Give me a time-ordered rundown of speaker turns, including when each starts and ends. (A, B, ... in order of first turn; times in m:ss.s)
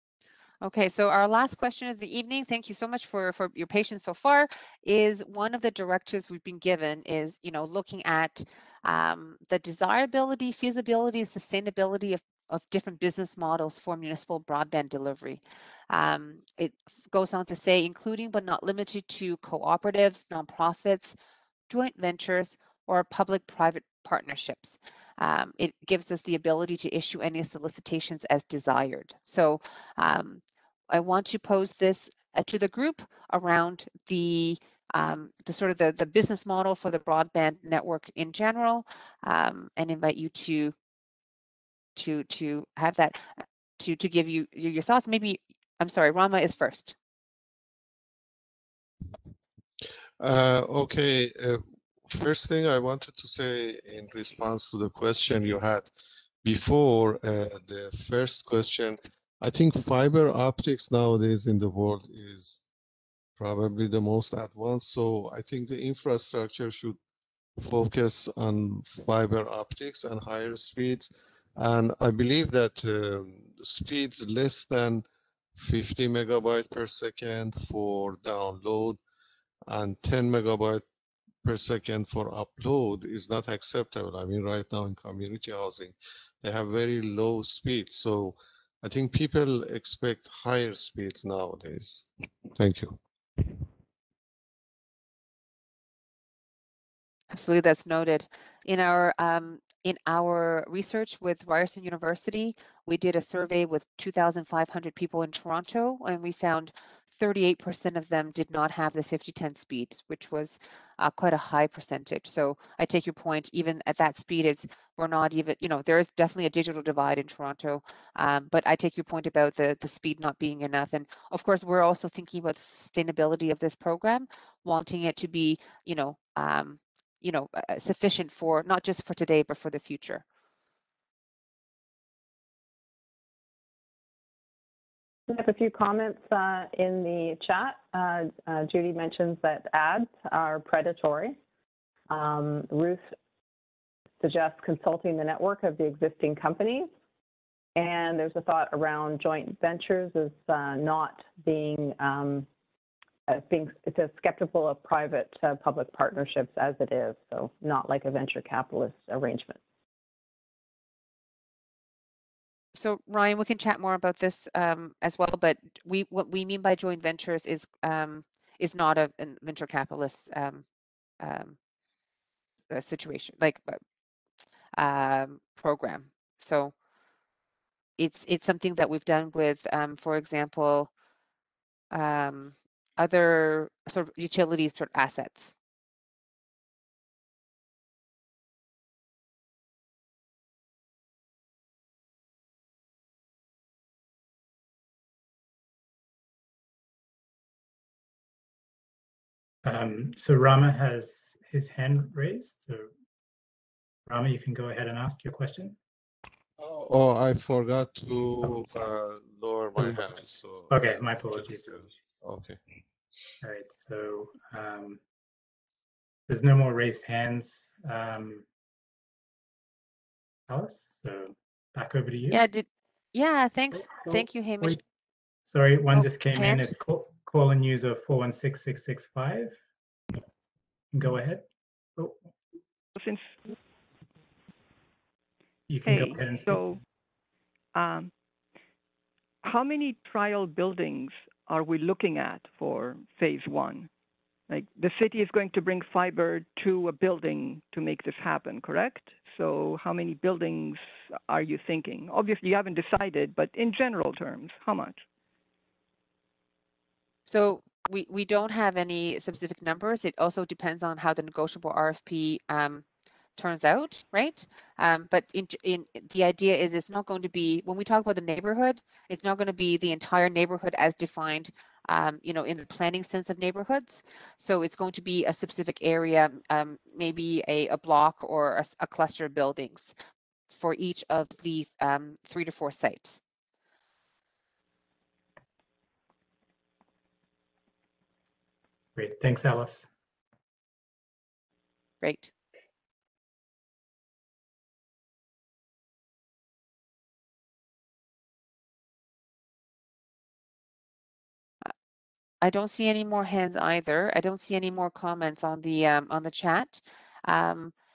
0:00.6-0:21.2 A
0:21.7-0:40.7 A
0:42.0-0:46.9 A
0:50.2-0:55.9 B
0:56.4-1:02.6 B
1:03.4-1:07.0 B
1:07.6-1:15.0 B
1:15.6-1:19.0 B
1:19.7-1:20.8 B
1:21.4-1:33.5 B
1:37.3-2:10.2 A
2:15.3-2:21.4 C
2:22.1-2:23.0 C
2:24.2-2:26.9 C
2:27.8-2:32.5 C
2:33.3-2:39.6 C
2:42.7-2:50.6 A
2:51.2-2:51.6 A
2:52.7-2:53.8 A
2:54.8-2:56.7 A
2:58.0-3:00.9 A
3:01.9-3:05.5 A
3:19.6-3:22.9 D
3:24.1-3:25.8 D
3:26.6-3:32.6 B
3:29.8-3:30.0 D
3:30.7-3:31.8 D
3:33.4-3:35.0 D
3:36.3-3:38.4 D
3:40.5-3:42.4 D
3:42.3-3:44.8 A
3:43.7-3:44.8 D
3:45.4-3:49.6 D
3:45.9-3:46.7 A
3:50.9-3:51.4 D
3:53.0-3:53.3 E
3:55.7-3:56.7 D
3:55.8-3:56.8 E
3:57.7-3:58.1 E
3:59.4-4:03.9 E
4:04.5-4:15.0 E
4:17.3-4:22.8 A
4:23.4-4:39.9 A
4:40.5-4:43.2 A
4:49.0-4:49.9 D
4:52.0-4:52.3 A
5:02.4-5:07.7 A